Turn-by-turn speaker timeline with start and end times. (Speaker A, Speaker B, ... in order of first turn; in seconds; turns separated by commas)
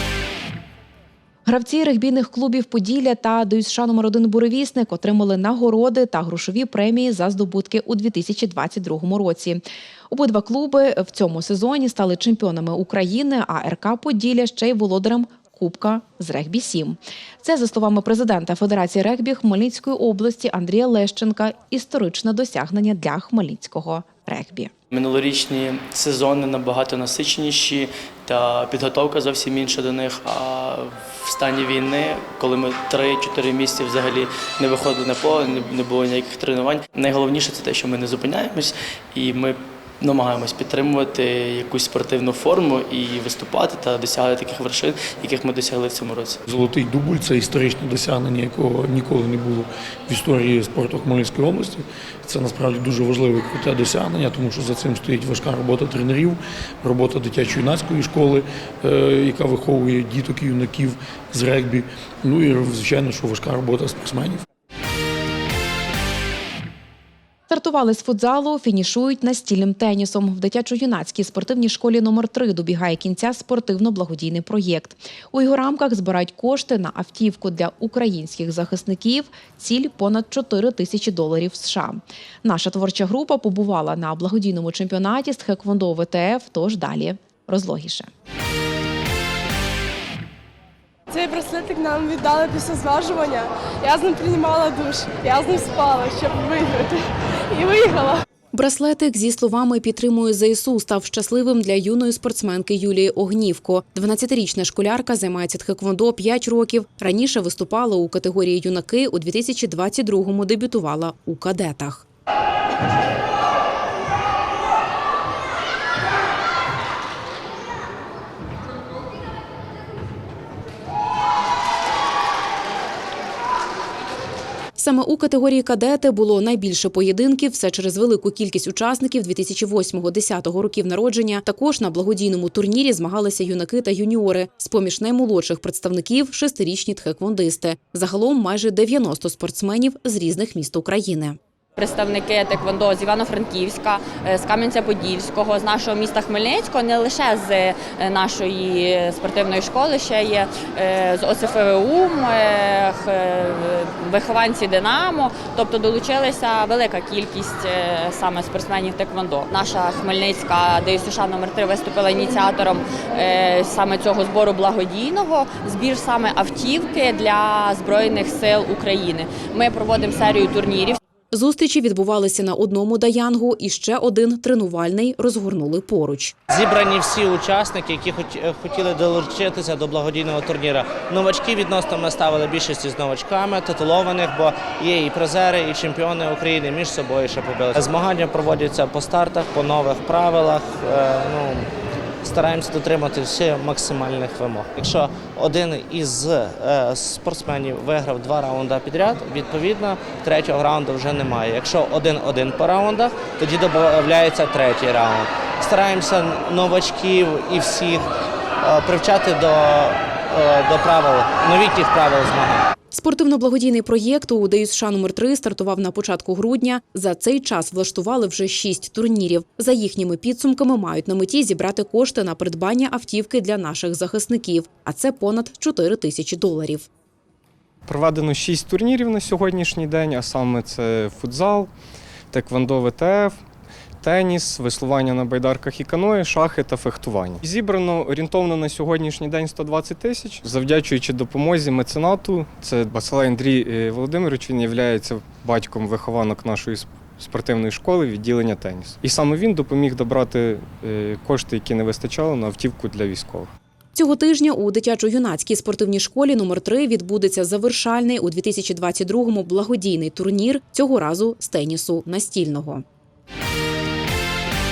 Speaker A: 1.4-24.7, Speaker B: 24.9-46.4, Speaker C: 46.5-64.4, Speaker A: 67.5-88.1, Speaker D: 91.1-98.2, Speaker A: 98.5-112.0, Speaker A: 124.8-141.4, Speaker E: 141.8-171.0, Speaker A: 171.3-176.3, Speaker F: 176.5-191.7, Speaker F: 192.2-208.1, Speaker F: 208.6-212.7, Speaker A: 212.9-226.9, Speaker G: 227.8-231.7, Speaker G: 232.3-233.4, Speaker G: 234.0-253.5, Speaker A: 253.9-262.8